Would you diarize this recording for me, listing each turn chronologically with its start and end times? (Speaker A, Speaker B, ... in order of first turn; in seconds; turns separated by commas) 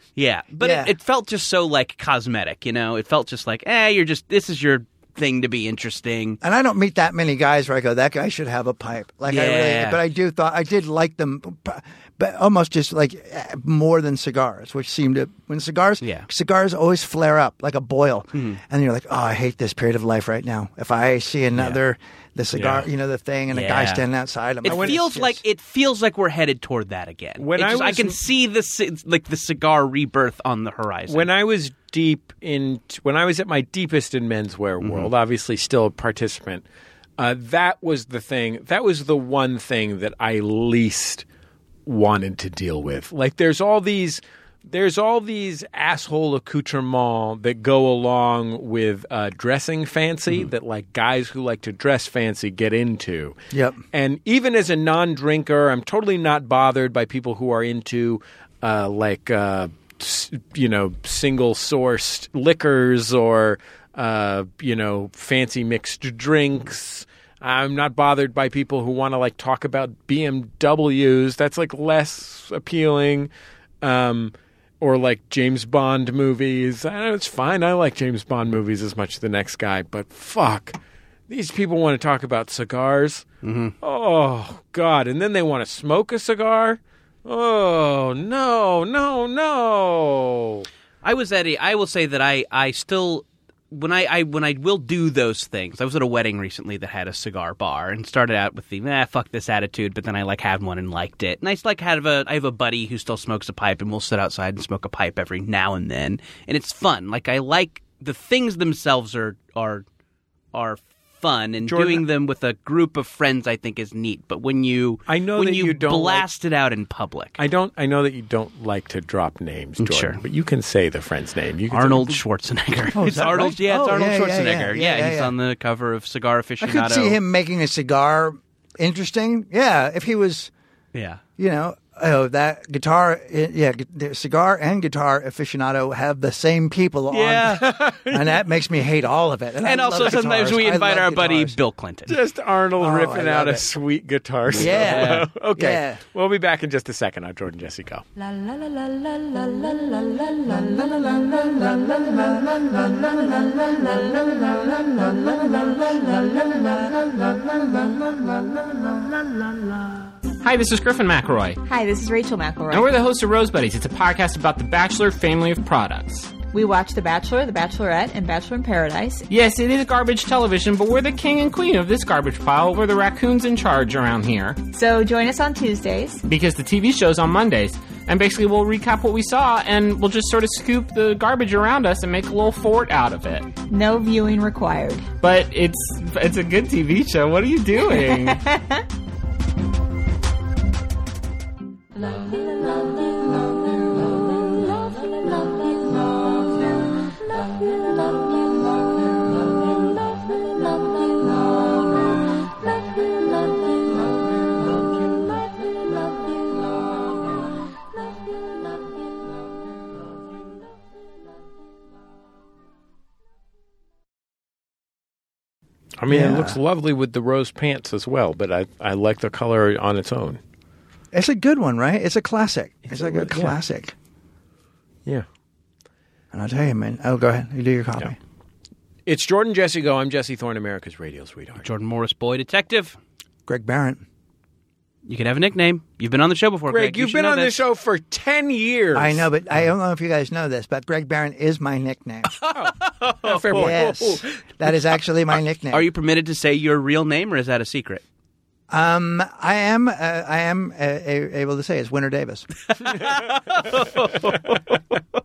Speaker A: 0.1-6.4, Speaker B: 0.6-0.9, Speaker B: 6.4-25.4, Speaker A: 9.3-10.0, Speaker A: 16.0-16.3, Speaker A: 18.3-18.6, Speaker C: 22.5-22.9, Speaker A: 23.5-24.0, Speaker A: 24.6-31.3, Speaker C: 24.7-25.0, Speaker C: 27.4-28.2, Speaker C: 31.1-36.6, Speaker A: 34.8-35.1, Speaker C: 37.2-41.2, Speaker C: 41.9-53.4, Speaker B: 53.5-53.8, Speaker C: 53.9-73.3, Speaker C: 73.8-80.8, Speaker C: 81.3-83.2, Speaker A: 83.4-83.7, Speaker C: 83.8-90.7, Speaker A: 91.0-109.8, Speaker A: 110.5-117.4, Speaker C: 111.6-112.0, Speaker C: 115.1-116.2, Speaker C: 117.4-122.2, Speaker A: 119.8-120.2, Speaker A: 121.7-127.2, Speaker B: 122.9-125.3, Speaker B: 126.6-130.5, Speaker A: 130.9-131.2, Speaker B: 131.4-141.6, Speaker A: 137.1-137.7, Speaker C: 137.6-138.4, Speaker A: 139.6-142.2, Speaker C: 142.1-148.0, Speaker B: 142.8-143.7, Speaker A: 144.5-145.3, Speaker B: 144.5-146.0, Speaker D: 149.2-156.9, Speaker E: 160.4-161.6, Speaker F: 161.6-162.9, Speaker E: 162.7-166.3, Speaker F: 166.5-169.2, Speaker E: 169.3-174.6, Speaker F: 174.7-176.2, Speaker E: 176.2-183.5, Speaker F: 183.7-185.0, Speaker E: 185.2-188.4, Speaker F: 187.9-188.8, Speaker C: 216.0-220.4, Speaker B: 216.1-216.6, Speaker B: 221.1-223.9, Speaker C: 222.9-223.6, Speaker B: 226.3-228.2, Speaker C: 229.1-231.6, Speaker A: 231.6-233.0, Speaker B: 233.5-234.0, Speaker A: 235.1-237.6, Speaker C: 236.7-239.3, Speaker B: 238.9-242.3, Speaker A: 242.4-244.2, Speaker C: 242.5-244.1, Speaker B: 243.5-245.8, Speaker A: 245.7-248.0, Speaker B: 248.7-252.5, Speaker A: 252.7-254.8